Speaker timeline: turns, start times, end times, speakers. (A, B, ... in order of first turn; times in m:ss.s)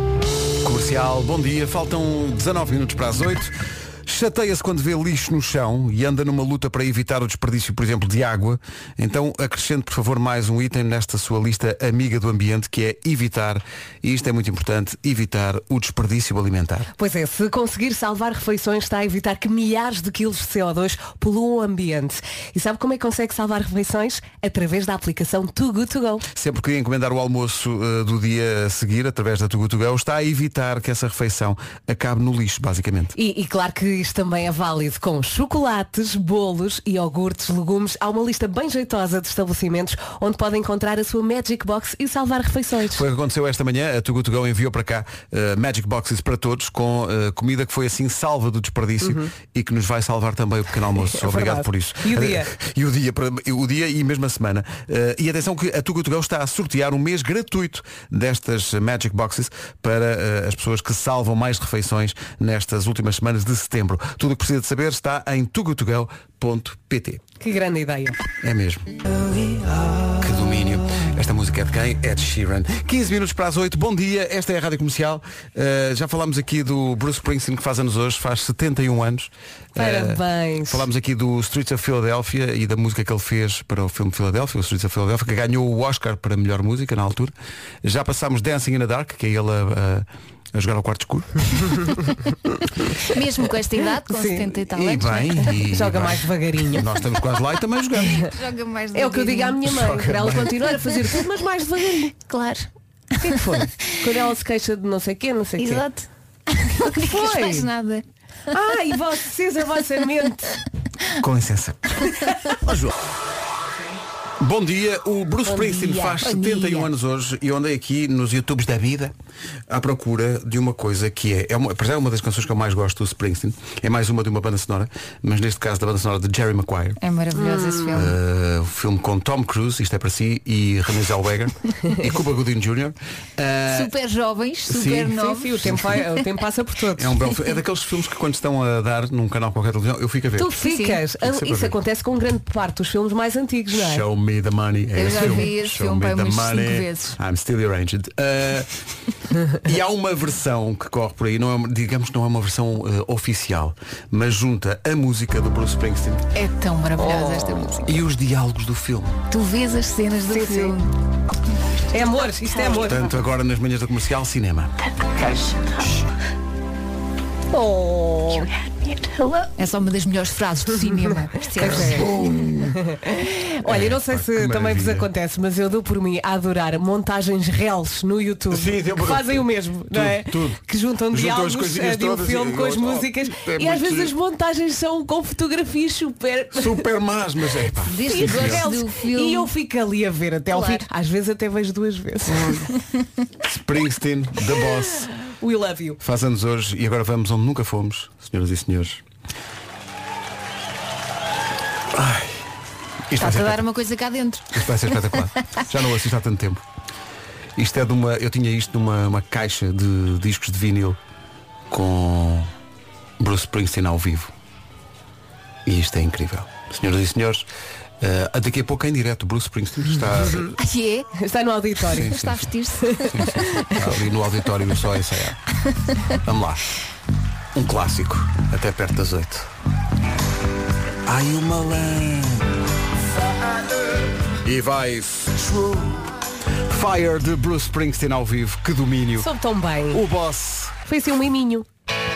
0:00.6-0:03.5 A
0:04.1-0:16.9 A
0:17.0-0:26.2 B
0:26.3-0:33.1 A
0:33.2-0:43.0 B
0:42.9-1:07.2 A
0:49.0-0:49.3 B
0:51.1-0:52.5 B
1:07.4-1:08.2 B
1:08.4-1:08.9 A
1:10.2-1:27.3 A
1:19.8-1:20.8 B
1:27.8-1:32.0 A
1:33.0-1:35.5 C
1:34.1-1:34.5 B
1:34.7-1:38.3 A
1:35.5-1:36.8 B
1:38.0-1:39.6 C
1:38.9-1:42.1 B
1:39.7-1:40.9 A
1:42.3-1:42.7 C
1:43.2-1:45.8 B
1:45.6-1:48.0 C
1:46.8-1:47.7 B
1:48.5-1:50.5 B
1:51.2-1:52.2 A
1:54.4-1:59.1 A
1:55.5-1:56.2 B
1:56.2-1:56.9 C
1:59.7-2:07.0 A
2:07.0-2:08.2 C
2:07.4-2:08.0 B
2:07.9-2:13.9 A
2:13.7-2:15.6 C
2:14.7-2:16.0 A
2:15.2-2:17.1 B
2:17.0-2:20.5 A
2:20.4-2:24.0 B
2:20.6-2:21.0 C
2:21.2-2:21.8 A
2:23.7-2:28.7 A
2:25.0-2:27.2 C
2:29.5-2:36.3 A
2:36.3-2:37.9 C
2:37.0-2:37.5 B
2:37.8-2:39.2 A
2:39.3-2:40.9 C
2:40.3-2:40.8 B
2:41.9-2:43.0 B
2:42.7-2:44.7 A
2:47.5-2:49.5 B
2:49.6-2:52.2 C
2:51.6-2:52.1 B
2:51.6-2:52.8 A
2:52.8-3:06.9 B
2:53.6-2:55.1 A
2:58.5-3:00.6 A
3:01.1-3:04.1 A
3:06.5-3:08.6 A
3:07.9-3:09.5 C
3:08.0-3:12.5 B
3:10.5-3:10.8 C
3:12.3-3:12.7 A
3:12.8-3:13.0 C
3:13.4-3:15.1 A
3:15.3-3:16.0 B
3:16.0-3:19.0 A
3:21.9-3:22.4 A
3:23.1-3:23.6 A
3:23.2-3:25.2 C
3:24.5-3:26.6 A
3:27.6-3:31.0 A
3:31.7-3:32.5 A
3:33.2-3:34.3 A
3:35.7-3:37.5 A
3:38.0-3:40.6 A
3:40.6-3:41.1 C
3:41.2-3:42.2 B
3:42.0-3:42.5 A
3:42.1-3:43.5 C
3:42.8-3:43.8 B
3:43.1-3:45.4 A
3:45.7-3:46.0 C
3:46.2-3:46.6 A
3:47.6-3:49.5 A
3:51.1-3:52.5 A
3:54.4-3:56.1 A
3:56.7-3:59.3 A
3:59.2-4:00.0 B
3:59.9-4:00.8 A
4:00.9-4:01.7 B